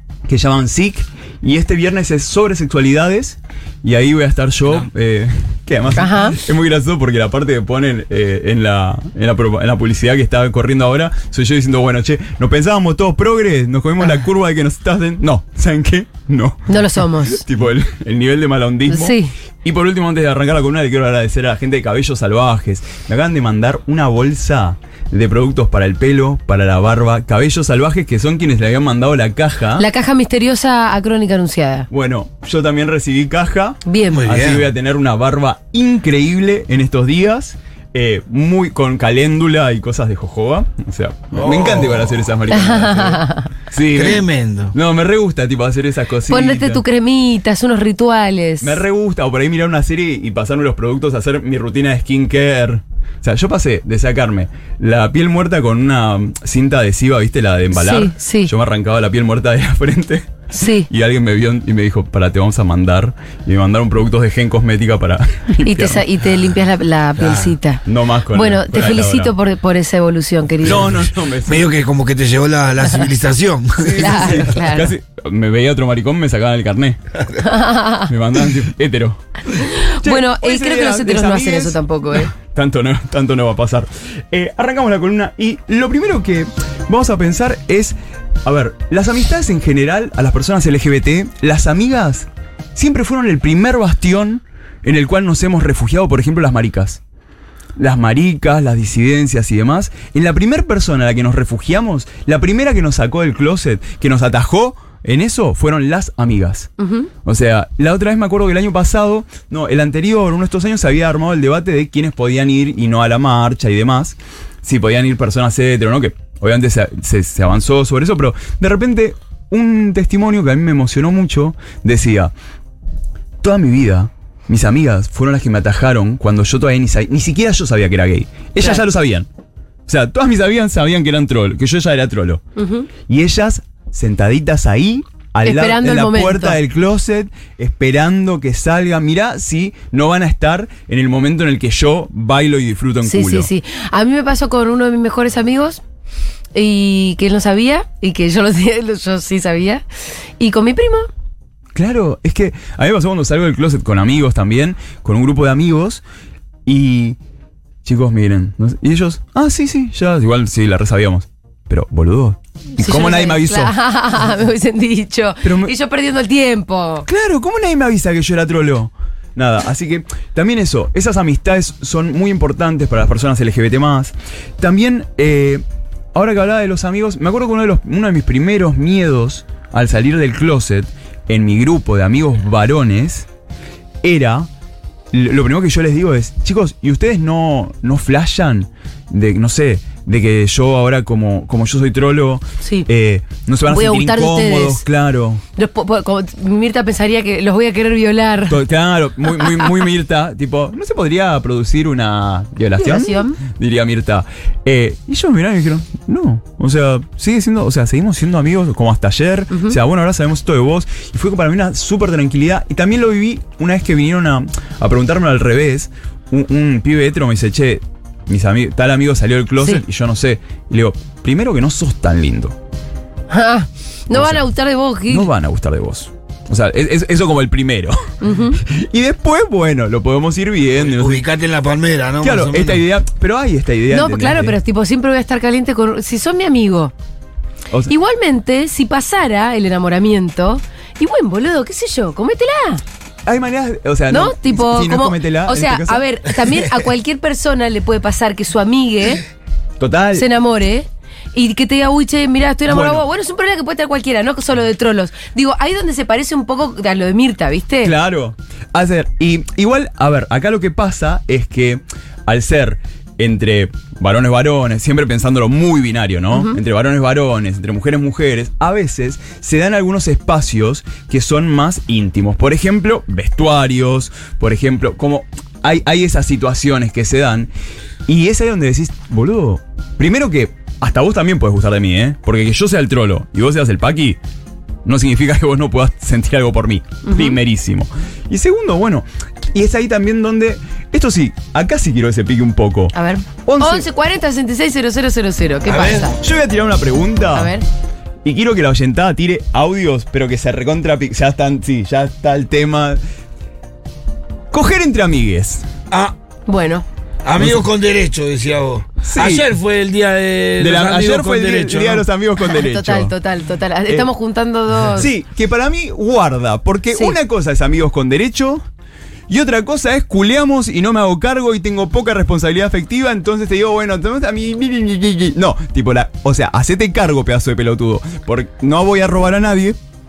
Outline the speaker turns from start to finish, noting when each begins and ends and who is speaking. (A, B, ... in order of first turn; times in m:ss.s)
0:00.2-0:29.8 A
0:06.0-0:06.4 B
0:16.7-0:17.4 B
0:18.9-0:19.3 B
0:29.8-0:31.9 B
0:31.9-0:46.8 A
0:33.8-0:34.2 B
0:34.1-0:34.6 C
0:41.3-0:42.1 C
0:42.5-0:43.5 B
0:43.9-0:44.7 C
0:46.3-0:48.8 B
0:48.6-1:00.3 A
0:57.7-0:58.5 B
1:00.5-1:00.9 B
1:00.9-1:06.0 A
1:05.6-1:10.9 B
1:07.2-1:07.5 C
1:07.8-1:09.3 A
1:10.6-1:11.7 A
1:10.7-1:10.9 C
1:11.5-1:14.5 C
1:13.8-1:17.0 A
1:14.0-1:14.9 B
1:17.4-1:18.1 B
1:18.1-1:19.2 A
1:19.6-1:22.3 B
1:20.0-1:37.0 A
1:37.8-1:46.7 A
1:46.8-1:47.1 B
1:47.2-2:02.3 A
2:03.4-2:09.3 A
2:09.9-2:12.4 A
2:12.6-2:12.9 B
2:13.0-2:23.5 A
2:15.4-2:16.6 B
2:23.0-2:25.8 B
2:26.5-2:29.8 B
2:30.4-2:31.1 B
2:31.7-2:36.0 A
2:36.6-2:37.2 A
2:37.8-2:43.7 A
2:42.8-2:47.0 B
2:45.4-2:45.7 A
2:47.0-3:03.3 A
3:04.0-3:04.5 A
3:05.1-3:15.4 A
3:13.7-3:14.8 B
3:15.6-3:18.6 B
3:18.5-3:42.6 A
3:19.4-3:19.7 B
3:22.8-3:23.4 B
3:29.5-3:29.8 B
3:43.3-3:45.3 B
3:44.1-3:44.5 A
3:45.1-3:48.1 A
3:48.2-3:48.6 B
3:48.6-3:51.2 A
3:50.8-3:52.8 C
3:52.2-3:54.6 A
3:53.9-3:56.9 B
3:57.9-4:02.8 B
4:03.2-4:06.0 A
4:04.1-4:09.2 B
4:09.8-4:10.3 A
4:10.1-4:17.9 B
4:12.7-4:13.0 A
4:17.8-4:37.5 A
4:26.3-4:26.6 B
4:38.0-4:44.2 A
4:44.8-4:52.9 A
4:47.0-4:47.4 B
4:52.9-4:56.2 B
4:53.4-4:53.9 A
4:55.6-4:56.1 C
4:56.2-4:57.5 A
4:57.3-4:57.6 B
4:58.2-5:03.0 A
5:04.5-5:05.7 A
5:06.5-5:06.8 B
5:07.2-5:12.0 C
5:09.0-5:09.5 A
5:10.6-5:13.1 A
5:12.4-5:15.1 B
5:14.9-5:18.6 A
5:19.3-5:29.8 A